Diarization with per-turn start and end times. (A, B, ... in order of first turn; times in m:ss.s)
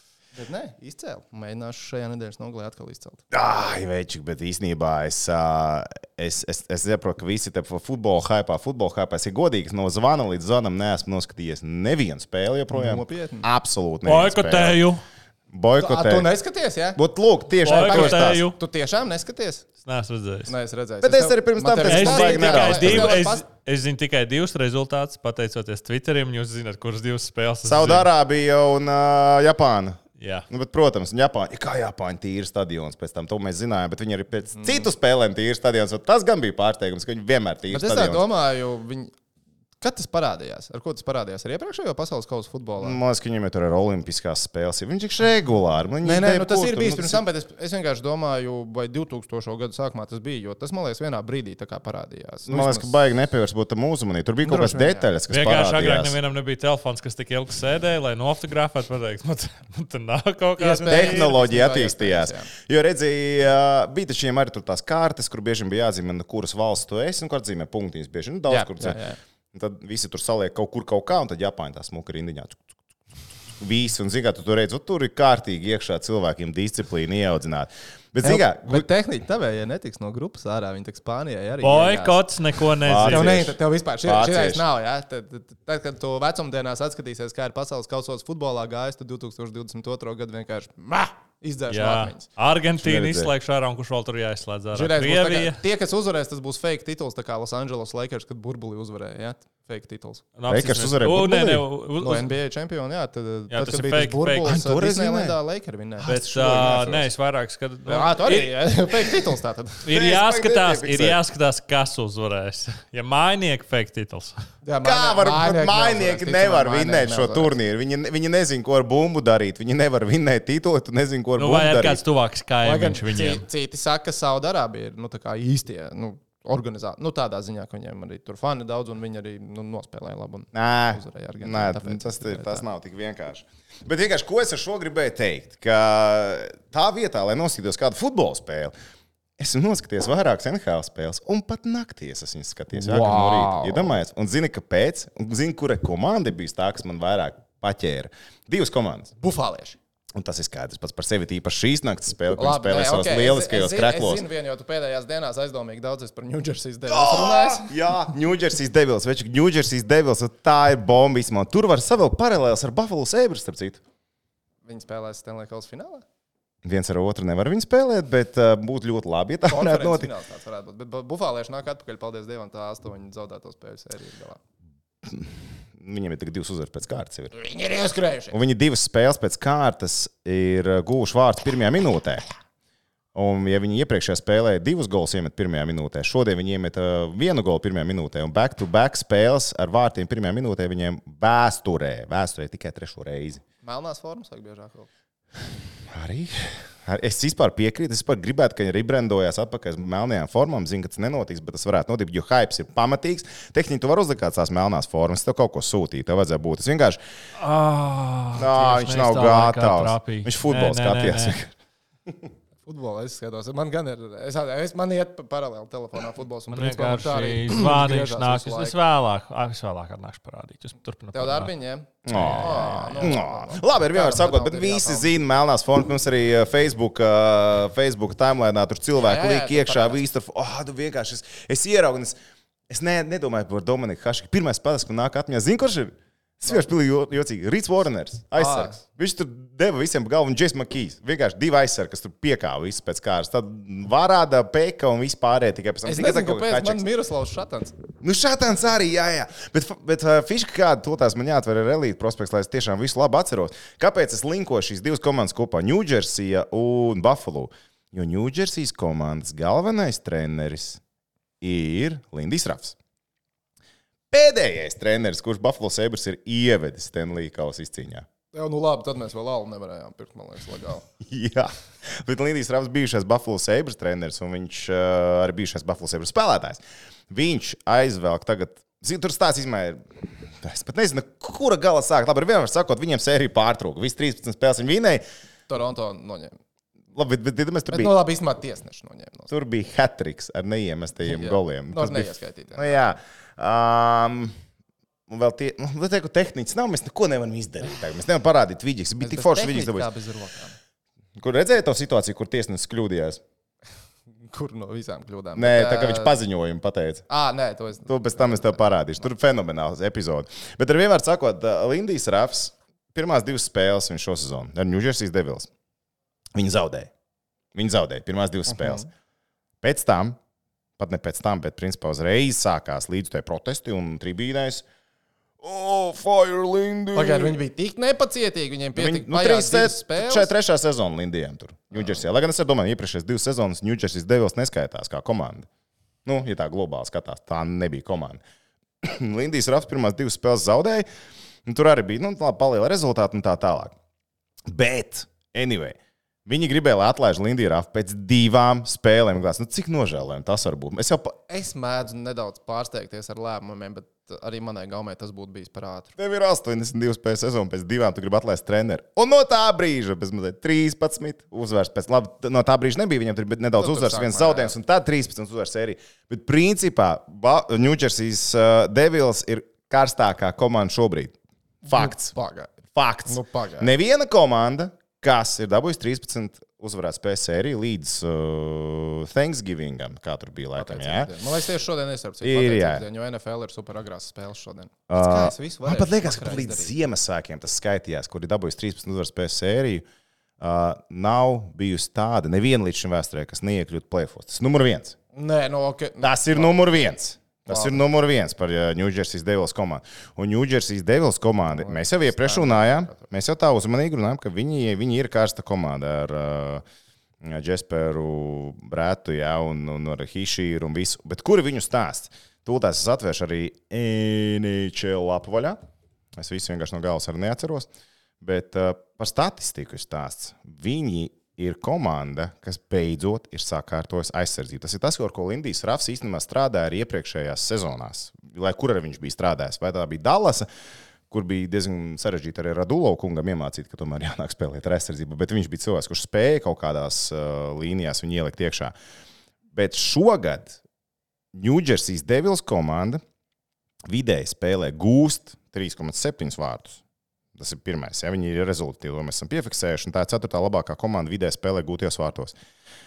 0:00.3-0:03.2 A
0:03.3-0:14.8 B
0:12.7-0:13.5 A
0:14.0-0:15.0 C
0:15.5-0:16.3 B
0:15.8-0:17.0 A
0:17.0-0:18.4 B
0:17.6-0:18.6 C
0:17.7-0:19.6 A
0:19.8-0:20.5 C
0:20.5-0:23.4 A
0:21.0-0:23.1 B
0:21.8-0:28.1 C
0:27.6-0:38.2 B
0:30.2-0:30.5 C
0:34.6-0:34.9 A
0:37.7-0:39.1 A
0:39.8-0:43.0 A
0:42.8-0:47.2 B
0:46.0-0:53.0 A
0:52.5-0:56.2 B
0:54.4-0:55.1 A
0:55.3-1:01.3 C
1:00.6-1:02.5 A
1:00.9-1:09.0 B
1:08.5-1:09.2 A
1:09.5-1:12.6 B
1:13.6-1:18.8 B
1:18.2-1:22.2 A
1:21.6-1:23.4 C
1:22.8-1:24.6 B
1:23.0-1:32.3 A
1:31.7-1:35.6 C
1:32.8-1:33.3 B
1:34.7-1:40.2 A
1:40.4-1:42.3 C
1:40.5-1:41.6 B
1:42.0-1:46.9 A
1:43.5-1:44.5 C
1:44.4-1:45.4 B
1:46.0-1:47.0 B
1:46.0-1:49.2 C
1:47.9-1:49.9 A
1:49.8-1:54.4 C
1:49.9-1:51.2 B
1:54.6-1:57.5 A
1:54.8-2:02.0 B
2:01.4-2:03.4 C
2:02.6-2:12.7 A
2:10.5-2:18.7 B
2:19.4-2:29.1 B
2:22.7-2:24.0 A
2:29.2-2:29.8 A
2:30.1-2:34.2 B
2:32.3-2:37.8 A
2:36.9-2:43.8 B
2:44.6-2:46.0 A
2:46.6-2:50.1 B
2:49.5-2:54.4 A
2:55.0-2:57.3 B
2:57.3-2:58.3 A
2:58.3-3:02.2 B
3:03.1-3:13.4 B
3:13.6-3:14.9 A
3:15.9-3:27.0 B
3:27.4-3:31.4 C
3:28.3-3:31.5 B
3:32.6-3:38.7 A
3:36.5-3:41.5 C
3:41.1-3:45.1 A
3:42.0-3:52.1 B
3:42.1-3:43.1 C
3:48.9-3:50.0 A
3:52.7-4:06.8 B
3:58.4-3:58.8 A
4:05.8-4:07.7 A
4:08.0-4:20.8 B
4:21.4-4:22.8 B
4:24.1-4:28.0 B
4:28.3-4:30.8 A
4:31.0-4:45.0 B
4:45.5-4:46.4 A
4:46.9-4:47.9 B
4:47.7-4:49.3 A
4:49.3-4:54.3 B
4:51.0-4:52.7 A
4:55.1-4:59.9 B
4:59.0-5:00.6 A
5:01.2-5:03.2 B
5:04.3-5:06.2 A
5:05.4-5:07.0 B
5:07.1-5:08.7 A
5:07.9-5:15.5 B
5:16.3-5:16.9 B
5:17.5-5:18.9 B
5:18.5-5:18.8 A
5:19.6-5:20.2 B
5:20.8-5:24.6 B
5:25.4-5:27.4 B
5:26.9-5:30.3 A
5:28.7-5:35.5 B
5:31.7-5:32.0 A
5:36.0-5:38.2 B
5:38.8-5:40.8 B
5:41.4-5:43.7 B
5:44.5-5:51.2 B
5:51.3-5:55.9 A
5:56.0-6:11.1 B
6:03.6-6:04.5 A
6:11.6-6:12.5 A
6:11.6-6:12.1 B
6:12.7-6:21.1 B
6:13.0-6:13.7 A
6:20.5-6:26.7 A
6:22.2-6:22.8 B
6:24.9-6:29.8 B
6:30.4-6:35.0 B
6:35.1-6:36.6 A
6:36.0-6:46.6 B
6:37.4-6:37.8 A
6:41.6-6:43.0 A
6:47.2-6:55.6 B
6:56.2-6:57.7 B
6:58.2-7:10.5 B
7:11.1-7:18.7 B
7:19.5-7:20.6 B
7:21.3-7:23.0 B
7:23.9-7:26.8 B
7:27.4-7:32.3 B